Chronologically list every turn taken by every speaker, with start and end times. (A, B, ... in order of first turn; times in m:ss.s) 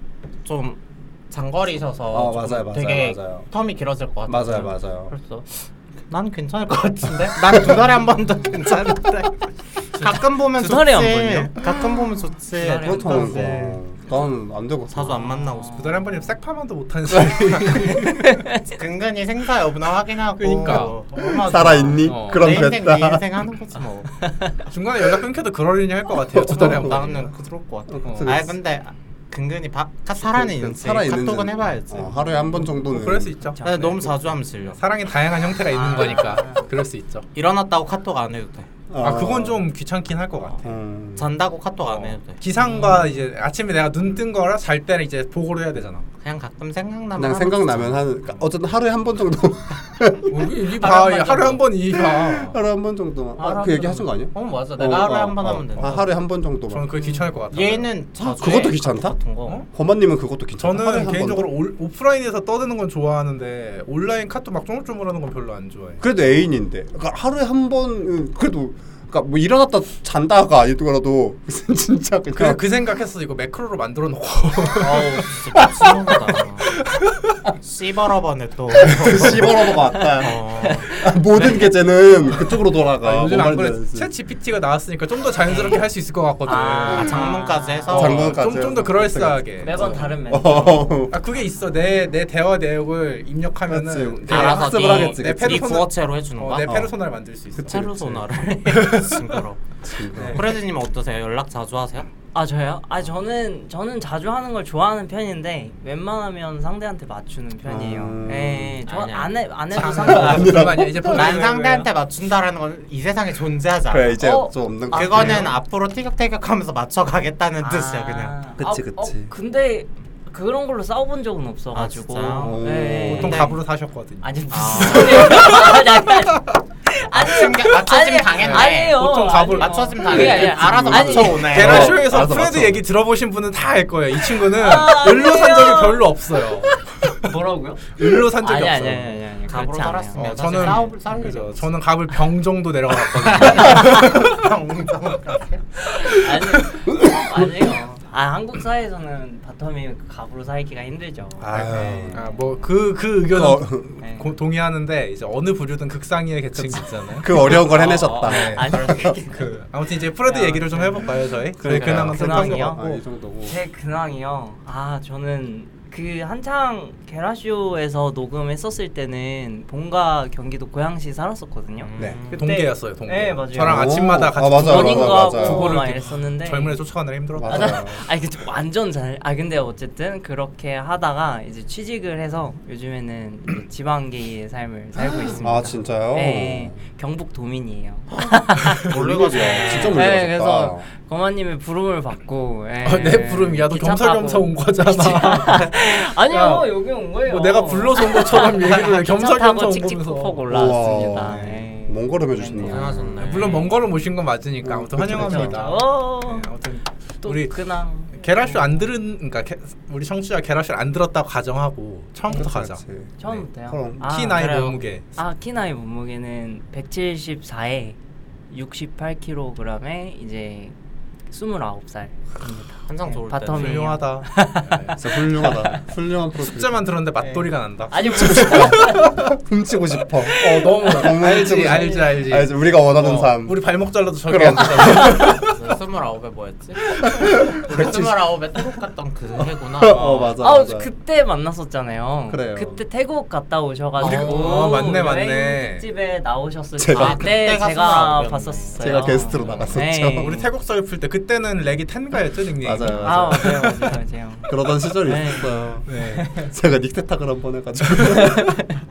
0:00.4-0:13.8 A
0:02.1-0:03.5 B
0:04.3-0:05.1 B
0:07.5-0:07.8 B
0:10.5-0:11.7 C
0:12.6-0:13.4 D
0:12.6-0:15.3 B
0:14.9-0:16.1 A
0:15.2-0:16.2 C
0:15.7-0:18.2 D
0:17.1-0:18.0 B
0:18.0-0:18.6 C
0:18.6-0:24.1 A
0:20.3-0:21.0 D
0:21.3-0:23.2 B
0:22.0-0:22.5 D
0:24.2-0:24.5 C
0:24.7-0:27.3 D
0:26.3-0:27.0 B
0:26.5-0:32.7 A
0:27.9-0:28.6 B
0:28.0-0:28.4 D
0:30.2-0:33.5 B
0:32.8-0:33.6 D
0:33.4-0:34.3 C
0:33.6-0:34.8 A
0:34.7-0:37.3 D
0:35.7-0:36.2 A
0:35.7-0:36.7 C
0:37.3-0:38.7 A
0:38.9-0:39.6 B
0:39.0-0:40.7 D
0:40.6-0:41.3 B
0:41.2-0:42.4 A
0:41.9-0:46.0 D
0:42.6-0:43.2 C
0:46.2-0:48.4 A
0:47.2-0:50.3 B
0:50.3-0:52.6 D
0:50.6-0:51.6 A
0:51.9-0:56.9 B
0:53.4-0:56.1 A
0:55.8-0:56.1 D
0:56.7-0:57.9 D
0:57.5-0:59.6 A
0:58.2-0:59.2 B
0:59.7-1:01.5 B
1:00.6-1:06.0 D
1:06.0-1:12.6 B
1:12.3-1:15.9 D
1:14.8-1:16.7 A
1:16.6-1:17.4 D
1:17.6-1:20.9 A
1:18.8-1:24.1 B
1:19.9-1:21.7 C
1:23.0-1:27.3 D
1:25.5-1:25.8 C
1:26.4-1:28.1 C
1:26.9-1:28.4 A
1:27.9-1:30.0 D
1:27.9-1:31.2 B
1:29.6-1:31.1 C
1:31.1-1:37.9 D
1:33.7-1:35.8 B
1:34.3-1:36.8 A
1:36.6-1:36.9 B
1:37.6-1:38.2 B
1:37.7-1:42.1 A
1:38.6-1:39.4 D
1:39.9-1:40.4 B
1:40.1-1:40.5 D
1:42.3-1:50.7 C
1:47.6-1:48.8 B
1:48.8-1:54.2 A
1:49.8-1:51.2 B
1:50.2-1:51.8 D
1:53.9-1:55.5 B
1:54.2-1:55.5 C
1:54.9-1:58.3 A
1:57.6-2:03.5 C
1:58.6-1:59.3 B
2:01.7-2:03.6 A
2:02.4-2:03.4 B
2:03.0-2:05.8 D
2:04.2-2:11.8 C
2:04.5-2:05.7 A
2:07.1-2:12.0 A
2:08.4-2:10.2 D
2:10.0-2:12.8 B
2:11.4-2:17.3 D
2:14.6-2:16.0 C
2:17.2-2:17.8 C
2:18.0-2:19.0 D
2:18.0-2:18.2 B
2:18.4-2:20.8 C
2:19.5-2:21.7 A
2:20.1-2:24.4 D
2:23.2-2:25.6 A
2:26.0-2:32.7 C
2:26.0-2:26.8 D
2:26.9-2:27.5 B
2:31.4-2:37.6 D
2:31.5-2:32.2 B
2:33.3-2:34.0 B
2:34.0-2:34.3 C
2:36.6-2:39.1 B
2:37.4-2:39.5 A
2:38.2-2:43.0 D
2:38.2-2:39.6 C
2:40.2-2:42.8 C
2:41.6-2:43.6 B
2:43.4-2:53.9 C
2:51.8-2:52.4 A
2:52.3-2:57.8 D
2:53.5-2:55.8 B
2:54.4-2:56.8 C
2:57.3-2:58.0 B
2:57.4-3:08.9 C
3:05.1-3:05.6 A
3:05.4-3:06.8 B
3:08.1-3:10.1 A
3:08.8-3:10.9 B
3:09.7-3:23.0 C
3:12.8-3:20.4 D
3:20.5-3:23.4 B
3:21.3-3:21.6 D
3:22.6-3:23.7 A
3:23.2-3:27.6 D
3:24.6-3:25.7 B
3:25.2-3:26.5 C
3:27.2-3:28.9 C
3:28.1-3:32.8 D
3:32.3-3:34.2 B
3:33.2-3:34.6 C
3:34.0-3:35.0 D
3:34.3-3:34.8 A
3:35.2-3:38.0 C
3:38.5-3:40.7 C
3:41.3-3:45.8 C
3:42.9-3:44.0 A
3:43.5-3:45.0 D
3:45.0-3:46.9 B
3:46.4-3:49.4 D
3:47.9-3:49.2 C
3:48.2-3:53.7 B
3:50.2-3:52.2 C
3:50.3-3:55.5 D
3:54.2-3:55.4 B
3:55.4-4:00.3 A
3:57.2-3:58.1 B
3:59.8-4:00.9 B
3:59.8-4:00.3 D
4:00.4-4:10.4 C
4:02.3-4:02.8 B
4:04.0-4:05.8 D
4:04.0-4:04.7 B
4:06.8-4:07.3 B
4:06.9-4:09.7 A
4:08.8-4:10.4 B
4:10.2-4:13.9 D
4:12.6-4:13.6 B
4:12.9-4:16.5 C
4:14.5-4:18.6 B
4:15.9-4:16.3 D
4:17.9-4:18.5 D
4:18.2-4:18.7 C